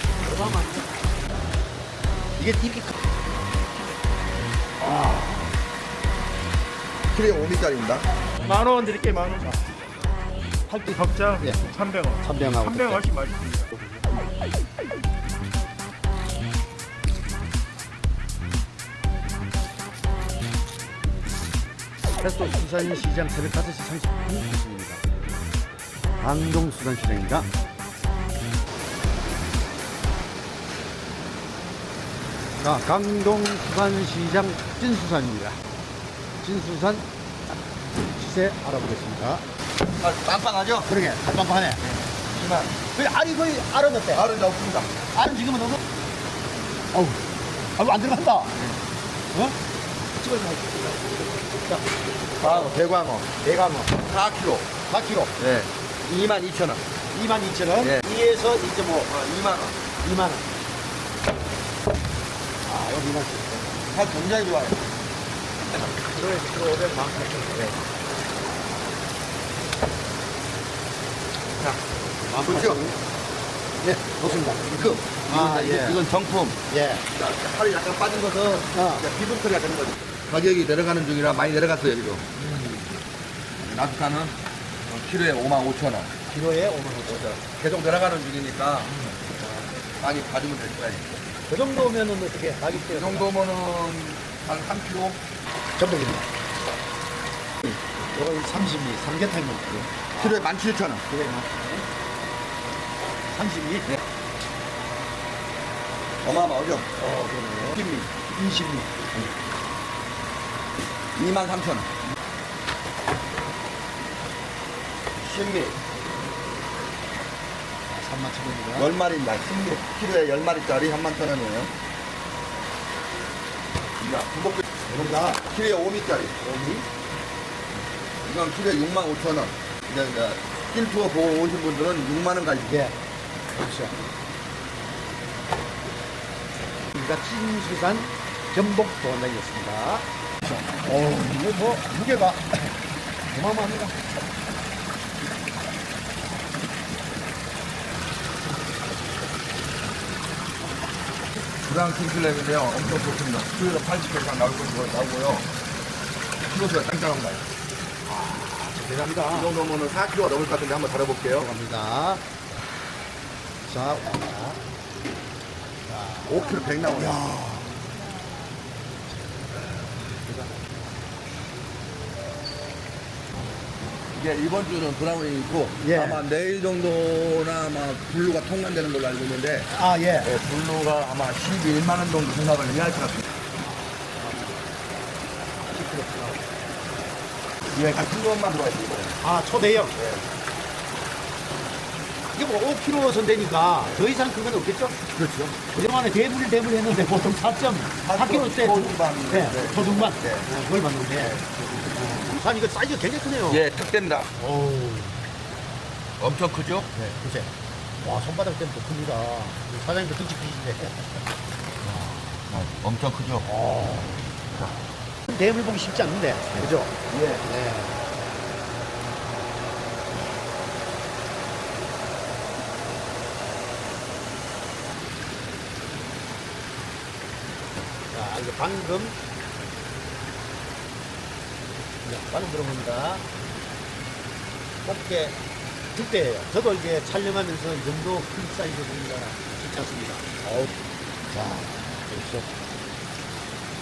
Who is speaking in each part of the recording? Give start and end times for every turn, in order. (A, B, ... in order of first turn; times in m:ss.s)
0:00.2-0:00.8 A
0:02.4-0:03.0 A
0:04.8-0:05.4 A
0:07.1-0:08.1 B
0:08.4-0:09.6 C
0:10.7-0:11.7 A
0:11.0-0:13.7 C
0:12.2-0:13.1 A
0:22.2-0:25.0 A
0:26.2-0:27.5 A
0:32.6-0:35.6 A
0:36.4-0:37.1 A
0:38.1-0:39.4 A
0:40.0-0:40.9 B
0:40.9-0:41.8 A
0:41.8-0:42.8 B
0:42.9-0:44.3 A
0:44.1-0:45.0 B
0:45.1-0:45.8 A
0:46.9-0:47.2 A
0:47.8-0:48.6 A
0:48.6-0:48.8 B
0:49.3-0:49.6 A
0:50.2-0:52.8 A
0:52.4-0:53.3 B
0:53.4-0:54.0 A
0:54.0-0:54.7 B
0:54.9-0:55.3 A
0:55.4-0:56.8 B
0:57.1-0:59.1 A
0:57.8-0:58.1 B
0:59.0-0:59.8 B
1:00.0-1:00.5 A
1:02.6-1:03.8 A
1:03.9-1:04.8 B
1:05.9-1:07.8 A
1:12.2-1:13.0 A
1:12.4-1:12.8 B
1:13.8-1:16.0 A
1:14.7-1:16.6 B
1:16.7-1:17.0 A
1:17.1-1:22.3 B
1:18.7-1:19.1 A
1:22.4-1:23.0 A
1:23.6-1:26.1 B
1:26.3-1:27.4 A
1:27.1-1:31.1 B
1:28.9-1:29.2 A
1:31.5-1:33.3 A
1:32.7-1:35.2 B
1:35.8-1:36.3 A
1:38.1-1:40.5 A
1:40.1-1:41.0 B
1:41.1-1:41.8 A
1:43.3-1:43.9 A
1:46.2-1:47.0 B
1:47.0-1:49.0 A
1:47.7-1:48.1 B
1:51.2-1:51.9 B
1:55.2-1:55.8 B
1:57.9-1:58.9 A
1:58.8-2:01.7 B
2:04.0-2:06.4 B
2:04.9-2:05.4 A
2:06.4-2:06.9 A
2:08.2-2:12.9 B
2:12.7-2:13.0 A
2:13.6-2:14.0 A
2:16.9-2:22.8 A
2:23.3-2:24.0 A
2:31.6-2:35.5 B
2:36.4-2:37.4 B
2:38.1-2:39.6 A
2:39.3-2:41.5 B
2:41.4-2:42.2 A
2:43.7-2:44.6 A
2:45.9-2:47.8 A
2:46.2-2:47.2 B
2:54.1-2:59.7 B
2:55.8-2:56.2 A
2:59.7-3:00.3 A
3:00.2-3:03.3 B
3:03.6-3:04.6 A
3:05.6-3:06.4 A
3:07.7-3:09.2 B
3:09.2-3:10.0 A
3:10.0-3:10.3 B
3:12.3-3:15.0 A
3:15.2-3:15.7 B
3:15.7-3:23.6 A
3:18.0-3:20.5 B
3:21.1-3:21.9 B
3:23.5-3:24.3 B
3:24.4-3:25.2 A
3:26.2-3:27.1 B
3:27.0-3:31.1 A
3:31.9-3:32.2 A
3:32.5-3:33.5 B
3:33.4-3:34.2 A
3:35.3-3:38.0 A
3:37.1-3:37.5 B
3:48.1-3:49.2 A
3:52.0-3:53.2 A
3:54.8-3:55.4 A
3:55.9-4:00.7 A
4:01.3-4:02.5 A